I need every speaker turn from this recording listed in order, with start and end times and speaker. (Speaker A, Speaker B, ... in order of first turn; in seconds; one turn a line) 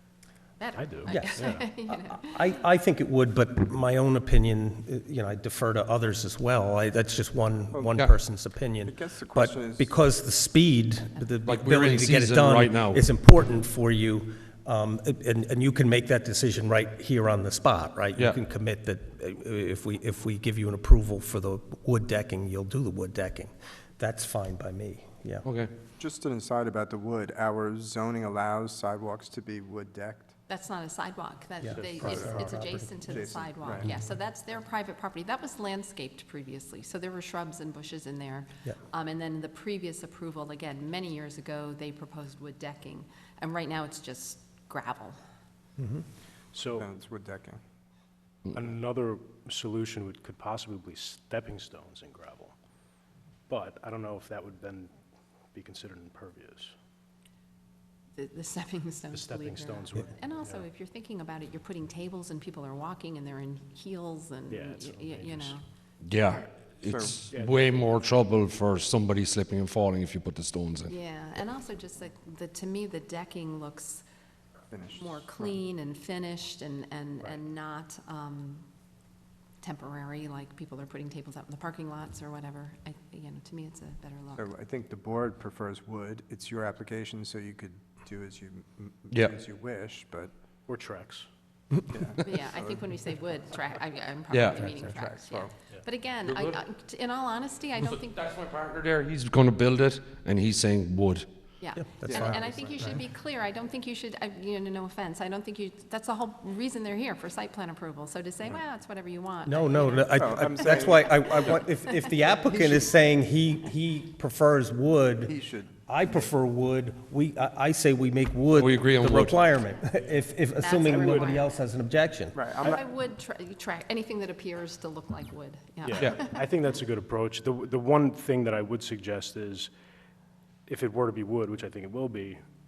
Speaker A: 0.6-2.4
Speaker B: 0.7-1.6
Speaker C: 1.1-25.4
Speaker D: 8.8-9.9
Speaker E: 11.4-13.0
Speaker E: 25.4-25.7
Speaker D: 26.0-30.3
Speaker A: 30.5-45.2
Speaker C: 31.6-34.0
Speaker B: 31.7-32.4
Speaker D: 32.0-32.4
Speaker D: 33.1-33.9
Speaker B: 46.5-46.9
Speaker D: 46.7-47.6
Speaker B: 48.5-52.5
Speaker B: 53.5-55.0
Speaker B: 55.5-56.7
Speaker A: 58.2-65.6
Speaker B: 59.1-60.6
Speaker B: 64.5-65.5
Speaker E: 66.0-70.9
Speaker D: 66.8-67.3
Speaker B: 67.3-67.7
Speaker A: 70.9-74.0
Speaker D: 74.7-75.5
Speaker A: 74.9-78.6
Speaker A: 79.6-84.5
Speaker D: 84.3-90.3
Speaker E: 89.1-89.4
Speaker B: 90.7-91.3
Speaker D: 91.9-92.9
Speaker A: 92.2-98.3
Speaker E: 94.3-94.7
Speaker D: 94.6-95.5
Speaker E: 96.2-96.6
Speaker E: 97.8-101.3
Speaker A: 101.6-111.6
Speaker C: 101.8-103.0
Speaker D: 102.1-102.8
Speaker C: 109.4-115.3
Speaker D: 110.1-111.2
Speaker D: 112.5-112.8
Speaker D: 115.3-115.9
Speaker C: 115.9-122.4
Speaker E: 118.5-119.4
Speaker A: 120.6-121.6
Speaker B: 120.8-121.4
Speaker D: 122.3-122.8
Speaker A: 122.6-126.4
Speaker B: 125.8-129.7
Speaker B: 130.7-132.4